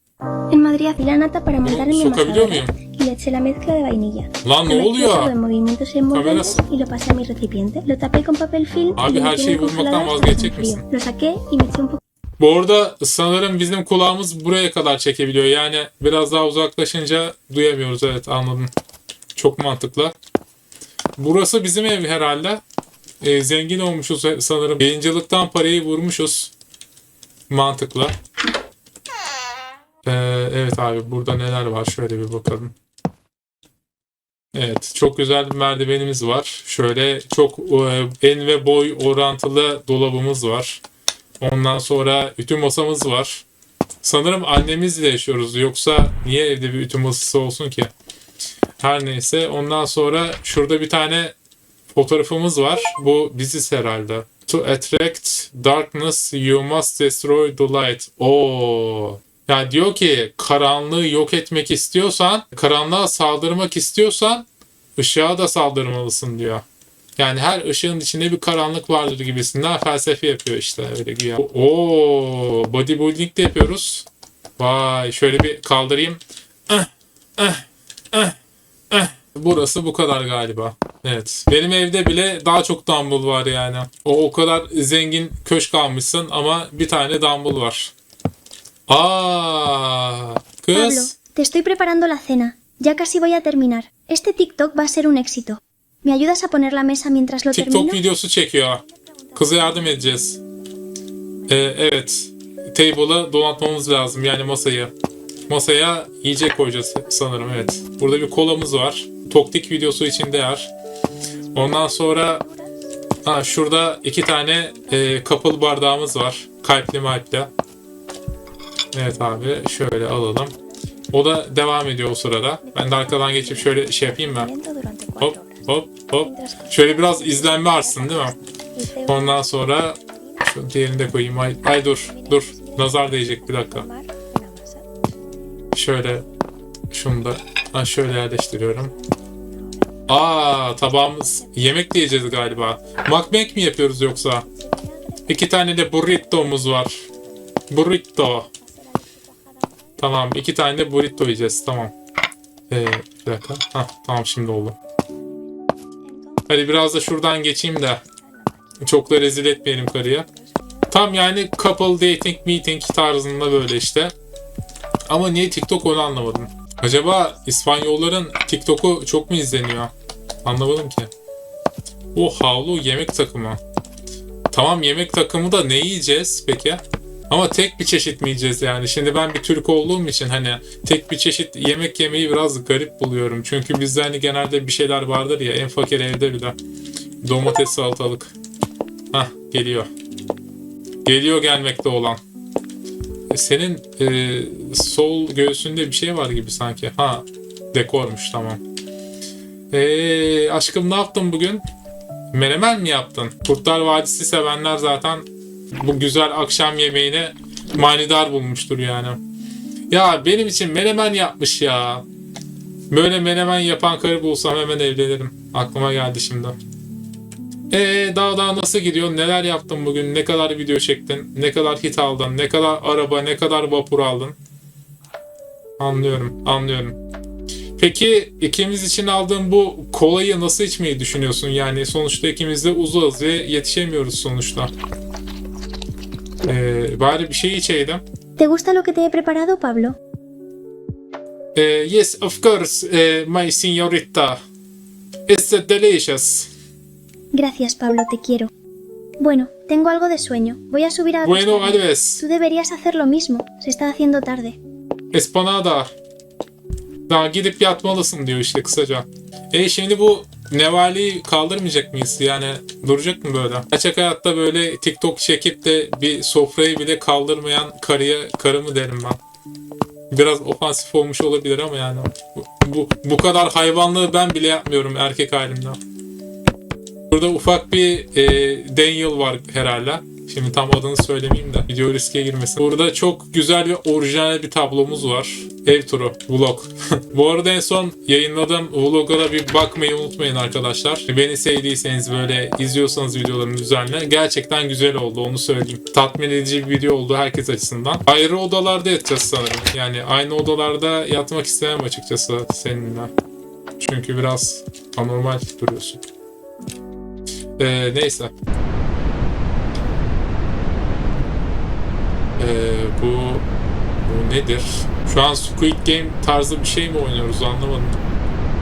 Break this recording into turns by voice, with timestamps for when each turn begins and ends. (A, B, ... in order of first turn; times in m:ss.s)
0:00.5-0:12.0 A
0:01.6-0:02.7 B
0:04.4-0:05.3 B
0:06.1-0:06.6 B
0:09.0-0:10.8 B
0:12.4-0:18.7 B
0:19.3-0:20.1 B
0:21.2-0:22.6 B
0:23.2-0:26.5 B
0:27.5-0:28.1 B
0:30.0-0:32.7 B
0:34.5-0:40.8 B
0:41.4-0:43.4 B
0:44.0-0:47.9 B
0:48.8-0:51.3 B
0:51.9-1:06.6 B
1:07.2-1:14.1 B
1:14.6-1:18.3 B
1:18.9-1:27.9 B
1:28.9-1:31.1 B
1:30.7-1:38.0 A
1:37.5-1:38.8 B
1:39.3-1:40.0 A
1:39.3-1:40.4 B
1:41.5-1:44.9 B
1:45.5-1:50.7 B
1:51.5-1:52.4 B
1:51.6-1:55.3 A
1:53.2-1:57.5 B
1:58.9-2:00.5 B
2:00.6-2:01.0 A
2:01.1-2:04.5 B
2:02.6-2:05.6 A
2:05.2-2:08.3 B
2:06.2-2:10.5 A
2:09.1-2:13.8 B
2:12.0-2:14.8 A
2:15.7-2:16.2 B
2:16.9-2:18.9 B
2:19.0-2:20.0 A
2:20.1-2:24.4 B
2:21.2-2:21.6 A
2:24.5-2:26.0 A
2:25.3-2:27.0 B
2:27.7-2:28.5 B
2:28.6-2:29.8 A
2:30.0-2:31.9 B
2:32.7-2:34.8 B
2:36.1-2:40.8 A
2:36.5-2:38.0 B
2:38.8-2:40.2 B
2:40.9-2:44.1 B
2:45.1-2:49.9 B
2:50.4-2:51.1 B
2:52.1-2:53.6 B
2:54.5-3:06.6 B
3:07.2-3:08.3 B
3:09.1-3:09.9 B
3:11.0-3:12.2 B
3:13.3-3:18.6 B
3:19.7-3:21.6 B
3:22.3-3:25.3 B
3:25.8-3:29.2 B
3:29.9-3:32.0 B
3:32.9-3:36.6 B
3:37.7-3:44.4 B
3:45.8-3:47.0 B
3:47.8-3:54.7 B
3:56.4-3:58.0 B
3:58.4-4:00.0 A
4:01.5-4:04.4 B
4:05.3-4:06.5 B
4:07.3-4:08.5 A
4:09.2-4:14.6 A
4:11.2-4:12.2 B
4:15.1-4:15.9 B
4:17.1-4:29.2 B
4:30.1-4:35.8 B
4:37.1-5:03.1 B
5:03.8-5:06.1 B
5:07.6-5:08.3 B
5:12.4-5:13.4 B
5:14.0-5:18.0 B